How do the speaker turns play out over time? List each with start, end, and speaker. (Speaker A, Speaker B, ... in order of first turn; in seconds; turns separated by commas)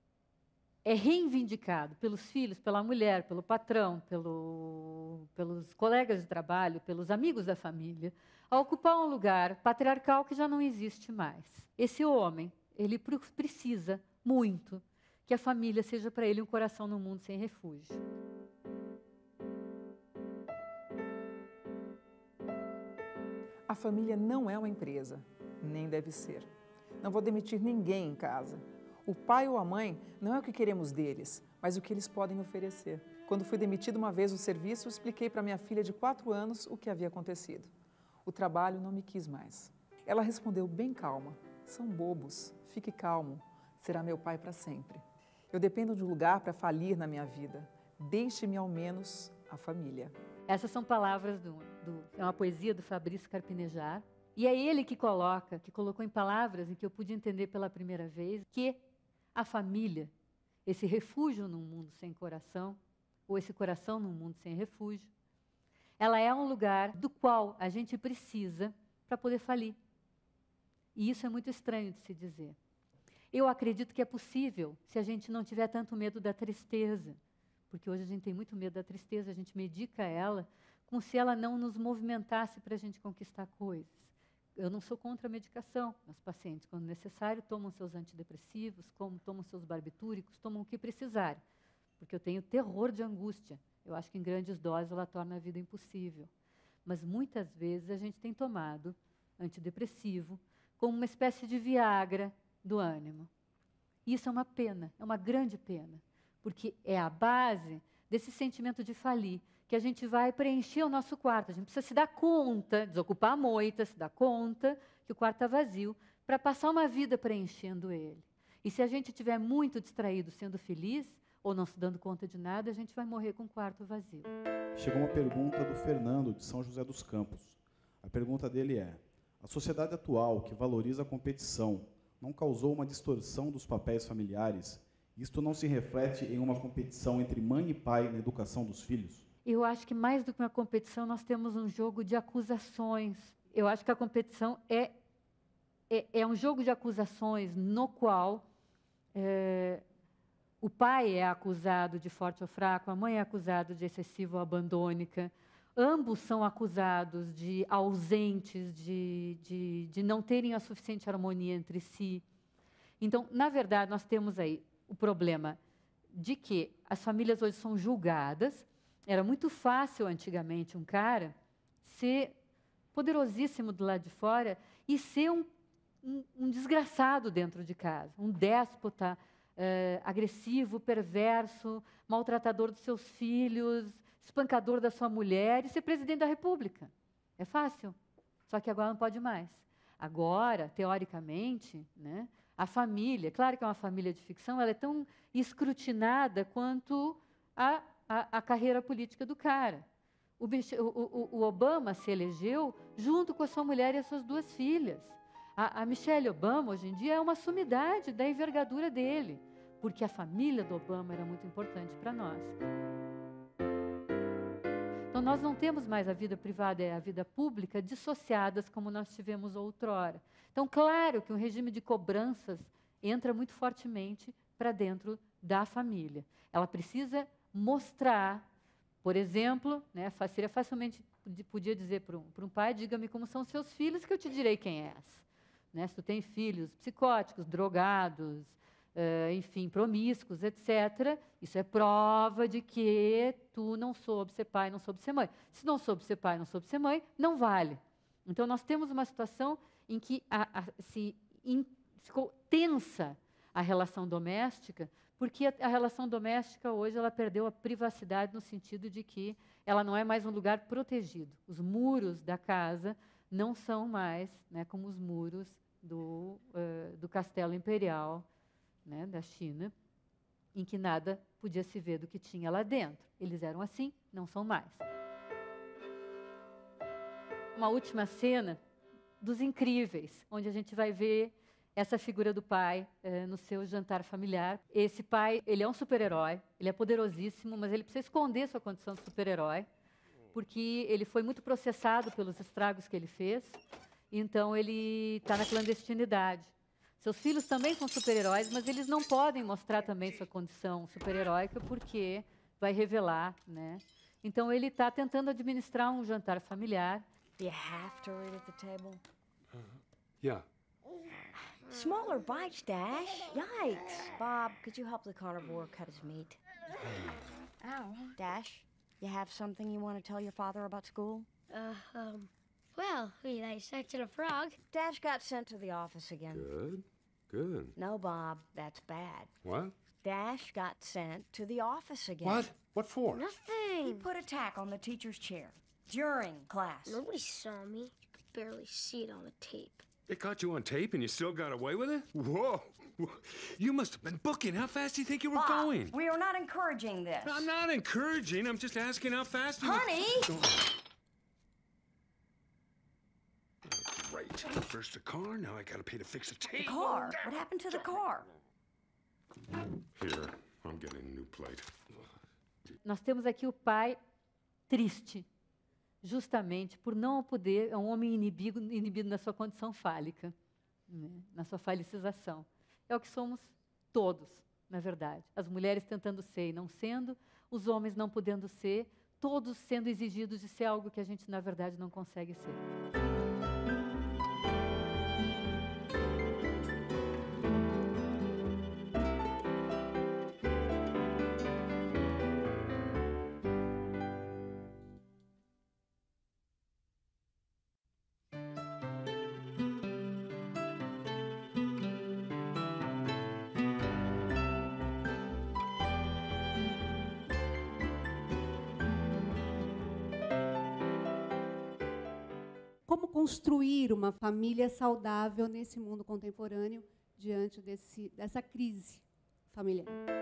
Speaker A: 0.8-18.0, Speaker B: 23.7-26.5, Speaker B: 27.0-37.7, Speaker B: 38.2-50.1, Speaker A: 50.5-58.8, Speaker A: 59.3-60.1, Speaker A: 60.6-65.1, Speaker A: 66.0-69.8, Speaker A: 70.9-72.5, Speaker A: 73.3-77.2, Speaker A: 77.7-91.4, Speaker A: 92.0-96.3, Speaker A: 96.8-103.3, Speaker A: 104.0-124.3, Speaker C: 124.8-139.2, Speaker A: 139.4-145.0, Speaker A: 145.9-148.4, Speaker A: 149.1-149.8, Speaker A: 150.6-162.2, Speaker A: 163.0-165.6, Speaker A: 166.1-172.3, Speaker A: 172.9-175.5, Speaker A: 176.0-187.9, Speaker A: 188.5-199.8, Speaker A: 200.4-212.5, Speaker A: 215.1-228.4, Speaker A: 229.0-268.2, Speaker A: 268.8-269.7, Speaker A: 270.5-274.8, Speaker A: 277.6-278.6, Speaker A: 279.2-289.7, Speaker A: 290.3-293.6, Speaker A: 294.1-307.0, Speaker D: 307.4-309.0, Speaker D: 311.6-316.4, Speaker D: 318.1-321.3, Speaker E: 321.5-324.6, Speaker D: 324.6-326.5, Speaker F: 326.3-327.7, Speaker D: 327.8-329.3, Speaker F: 329.4-329.7, Speaker D: 330.0-332.6, Speaker F: 332.2-333.2, Speaker E: 333.1-334.1, Speaker D: 333.1-337.0, Speaker E: 336.9-339.8, Speaker F: 340.1-345.9, Speaker D: 345.3-347.5, Speaker F: 347.2-350.6, Speaker D: 349.6-350.3, Speaker F: 353.7-357.2, Speaker D: 356.5-358.3, Speaker F: 360.0-361.7, Speaker A: 362.8-364.0, Speaker A: 364.7-365.3, Speaker A: 366.0-370.3, Speaker A: 370.9-382.6, Speaker G: 412.9-419.9